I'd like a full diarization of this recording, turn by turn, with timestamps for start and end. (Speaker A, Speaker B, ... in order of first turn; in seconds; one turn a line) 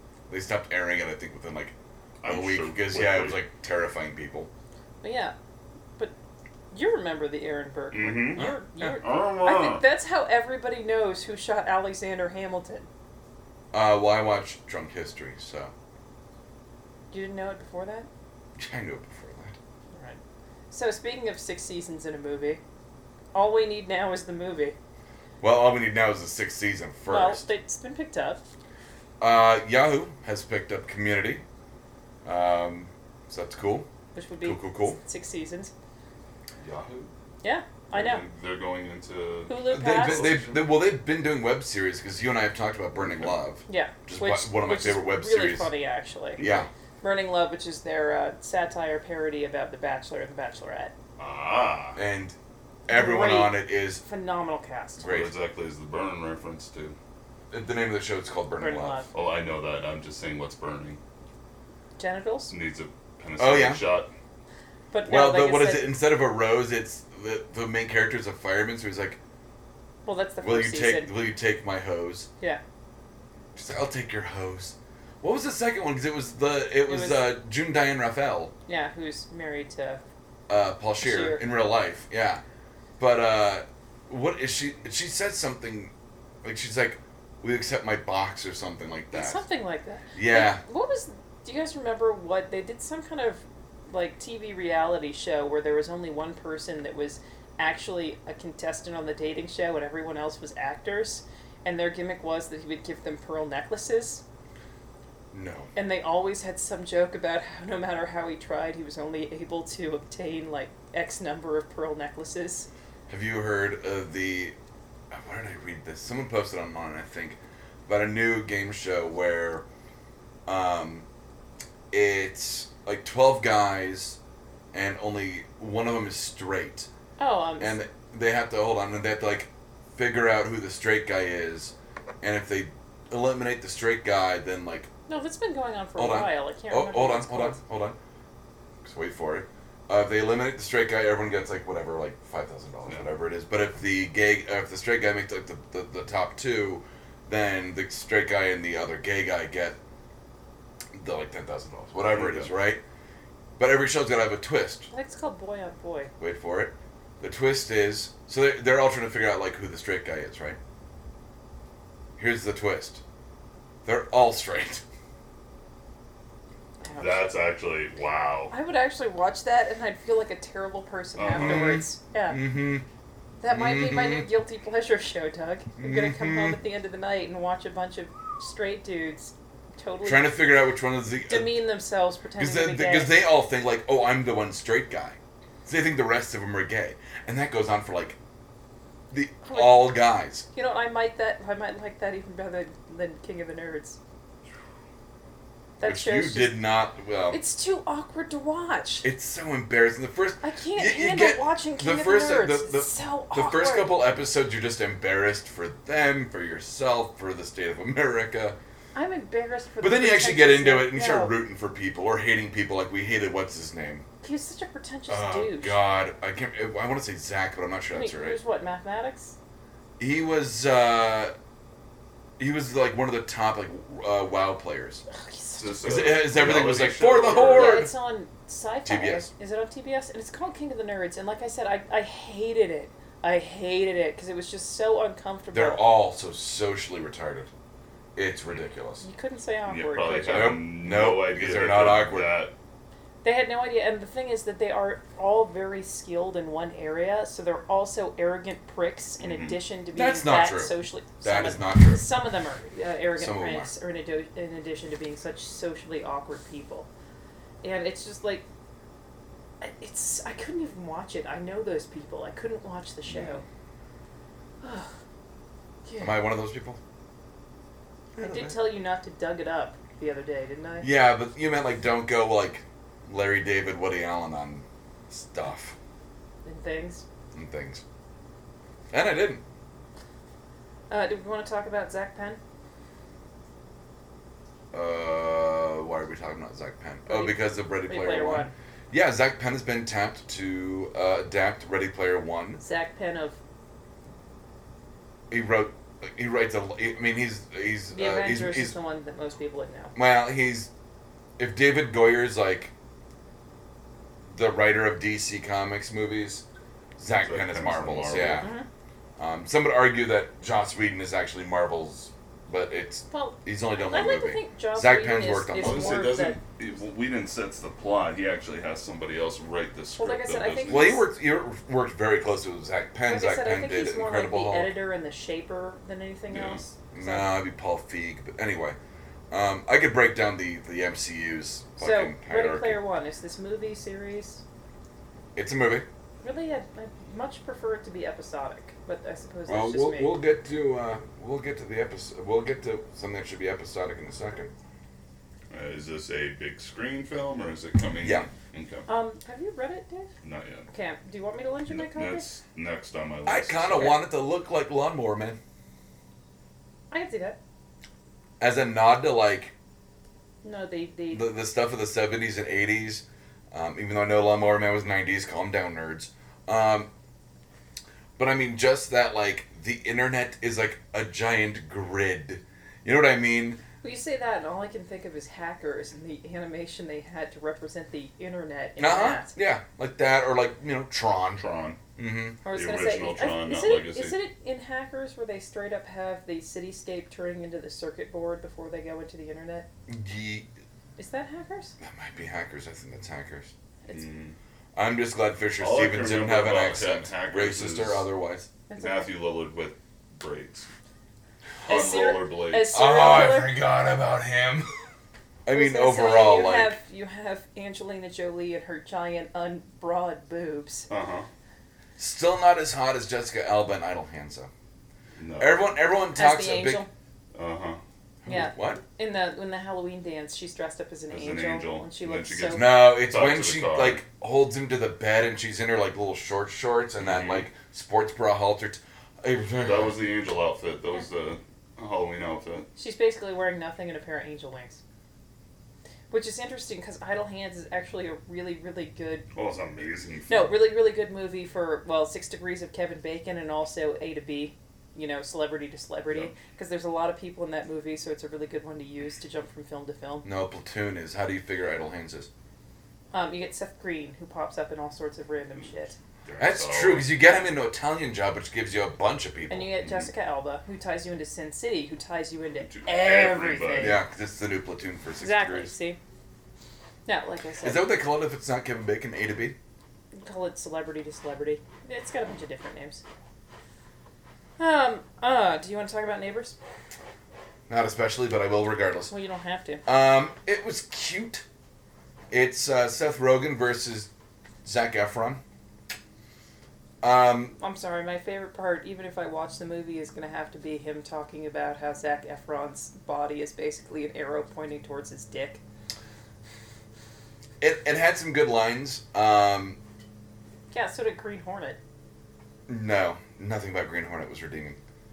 Speaker A: 0.3-4.5
Speaker B: 2.2-3.4
Speaker C: 5.0-5.3
Speaker C: 6.7-12.9
Speaker B: 7.9-9.8
Speaker A: 13.7-15.7
Speaker C: 17.1-18.1
Speaker A: 18.6-19.6
Speaker C: 19.9-20.2
Speaker C: 20.7-22.6
Speaker C: 23.3-24.8
Speaker A: 25.4-27.4
Speaker C: 27.1-28.4
Speaker A: 29.2-31.4
Speaker A: 32.2-33.9
Speaker C: 34.1-35.7
Speaker A: 34.4-35.0
Speaker B: 36.6-37.1
Speaker C: 37.4-38.2
Speaker B: 37.9-40.7
Speaker C: 39.5-40.3
Speaker A: 39.7-45.7
Speaker B: 43.0-43.4
Speaker C: 43.7-46.4
Speaker B: 46.4-46.7
Speaker A: 46.4-46.7
Speaker C: 47.0-50.9
Speaker B: 51.2-52.0
Speaker A: 52.0-52.4
Speaker A: 52.9-54.0
Speaker C: 52.9-55.1
Speaker A: 55.0-55.3
Speaker B: 55.0-57.0
Speaker A: 57.5-59.0
Speaker C: 58.6-59.1
Speaker B: 59.1-61.0
Speaker C: 62.0-62.5
Speaker B: 62.5-64.1
Speaker A: 63.4-63.8
Speaker C: 64.9-66.0
Speaker A: 65.0-69.2
Speaker C: 70.0-71.1
Speaker A: 70.4-72.3
Speaker A: 73.5-78.5
Speaker C: 76.8-77.3
Speaker C: 78.7-80.0
Speaker A: 80.5-82.4
Speaker C: 81.0-81.4
Speaker A: 83.0-85.9
Speaker A: 86.4-89.4
Speaker C: 89.1-104.2
Speaker A: 90.1-90.6
Speaker A: 105.3-105.7
Speaker C: 105.8-112.7
Speaker A: 113.1-114.5
Speaker A: 115.1-119.6
Speaker A: 120.5-121.0
Speaker A: 121.9-124.2
Speaker A: 124.7-126.9
Speaker C: 127.2-127.8
Speaker A: 127.6-134.9
Speaker C: 135.1-137.6
Speaker A: 136.0-138.0
Speaker A: 138.8-149.8
Speaker A: 150.9-152.8
Speaker B: 152.1-152.5
Speaker A: 153.6-154.9
Speaker C: 154.9-156.1
Speaker A: 156.2-160.6
Speaker A: 162.2-163.0
Speaker A: 163.8-164.8
Speaker C: 166.8-167.3
Speaker B: 166.9-168.5
Speaker C: 168.5-172.5
Speaker B: 171.2-171.8
Speaker A: 171.3-172.8
Speaker C: 173.4-180.4
Speaker A: 173.5-174.3
Speaker A: 175.8-176.6
Speaker A: 180.0-181.6
Speaker C: 181.3-183.1
Speaker A: 182.3-188.2
Speaker A: 189.1-190.4
Speaker C: 189.4-190.0
Speaker C: 190.5-194.0
Speaker C: 195.8-196.6
Speaker A: 195.8-197.4
Speaker C: 197.3-199.1
Speaker A: 199.0-208.6
Speaker C: 200.4-203.9
Speaker C: 208.9-211.3
Speaker A: 209.8-214.0
Speaker C: 214.2-215.8
Speaker A: 215.1-218.4
Speaker C: 217.9-219.3
Speaker A: 220.0-221.3
Speaker A: 222.4-225.0
Speaker C: 225.1-225.8
Speaker B: 225.6-227.9
Speaker A: 225.8-227.9
Speaker C: 227.5-235.9
Speaker A: 228.8-229.3
Speaker A: 235.5-237.5
Speaker A: 238.2-239.0
Speaker C: 239.0-240.6
Speaker B: 239.7-242.5
Speaker A: 240.3-242.3
Speaker C: 243.2-256.9
Speaker B: 249.2-249.6
Speaker A: 249.9-252.1
Speaker A: 253.2-253.7
Speaker C: 257.6-258.4
Speaker C: 259.6-263.4
Speaker C: 264.6-264.9
Speaker C: 265.9-266.3
Speaker A: 266.0-266.8
Speaker A: 268.1-268.6
Speaker C: 268.2-270.9
Speaker A: 270.8-275.7
Speaker C: 276.4-277.0
Speaker A: 277.3-277.8
Speaker A: 278.9-279.4
Speaker C: 280.9-282.4
Speaker A: 284.7-292.6
Speaker C: 287.1-288.5
Speaker C: 292.6-293.4
Speaker A: 295.3-298.8
Speaker C: 297.9-299.9
Speaker A: 299.9-300.7
Speaker A: 301.4-302.7
Speaker A: 304.3-306.4
Speaker A: 307.0-308.5
Speaker B: 307.2-308.5
Speaker C: 308.4-308.6
Speaker A: 309.2-316.1
Speaker C: 313.1-316.4
Speaker B: 315.6-321.0
Speaker C: 320.0-321.1
Speaker A: 320.7-324.7
Speaker C: 323.1-327.3
Speaker B: 326.3-326.6
Speaker A: 326.9-328.8
Speaker A: 329.3-332.8
Speaker C: 331.8-334.4
Speaker A: 335.3-335.9
Speaker C: 336.2-340.2
Speaker A: 339.5-344.5
Speaker B: 345.5-348.9
Speaker A: 348.0-348.3
Speaker C: 348.9-350.1
Speaker B: 350.2-350.7
Speaker C: 350.7-352.3
Speaker B: 351.7-354.0
Speaker A: 353.2-355.4
Speaker C: 356.9-357.4
Speaker A: 358.4-359.5
Speaker C: 360.4-361.3
Speaker A: 361.1-366.9
Speaker A: 368.2-373.6
Speaker C: 373.8-379.4
Speaker A: 378.8-381.4
Speaker B: 381.4-381.8
Speaker A: 382.0-382.4
Speaker C: 382.4-389.7
Speaker B: 382.5-384.2
Speaker A: 389.9-390.5
Speaker C: 391.0-391.7
Speaker A: 391.8-393.5
Speaker B: 393.9-394.4
Speaker A: 394.7-398.5
Speaker B: 395.6-398.1
Speaker C: 398.7-399.1
Speaker B: 398.8-400.7
Speaker B: 401.6-402.8
Speaker C: 401.6-403.6
Speaker A: 402.7-404.7
Speaker A: 405.4-406.8
Speaker C: 405.5-410.9
Speaker B: 410.9-411.3
Speaker A: 412.0-414.5
Speaker B: 415.2-415.7
Speaker A: 415.4-416.8
Speaker C: 416.1-416.9
Speaker B: 417.3-417.8
Speaker A: 418.2-418.8
Speaker C: 418.2-422.6
Speaker B: 421.1-424.0
Speaker A: 422.5-429.9
Speaker B: 427.0-427.4
Speaker B: 429.6-432.7
Speaker C: 432.8-434.8
Speaker C: 436.1-439.2
Speaker B: 439.3-440.6
Speaker C: 440.3-450.3
Speaker A: 450.2-452.3
Speaker C: 453.1-455.9
Speaker B: 456.2-457.1
Speaker A: 456.4-459.7
Speaker C: 459.5-464.0
Speaker B: 462.6-464.0
Speaker A: 463.8-465.7
Speaker C: 465.2-466.0
Speaker C: 467.1-467.9
Speaker A: 467.6-469.6
Speaker C: 470.1-473.0
Speaker C: 474.6-476.6
Speaker A: 477.7-479.1
Speaker C: 479.1-479.8
Speaker A: 479.8-481.4
Speaker A: 482.3-484.1
Speaker A: 484.6-485.4
Speaker A: 487.0-487.5
Speaker C: 487.6-495.6
Speaker A: 497.6-499.8
Speaker C: 500.7-501.8
Speaker A: 502.7-504.8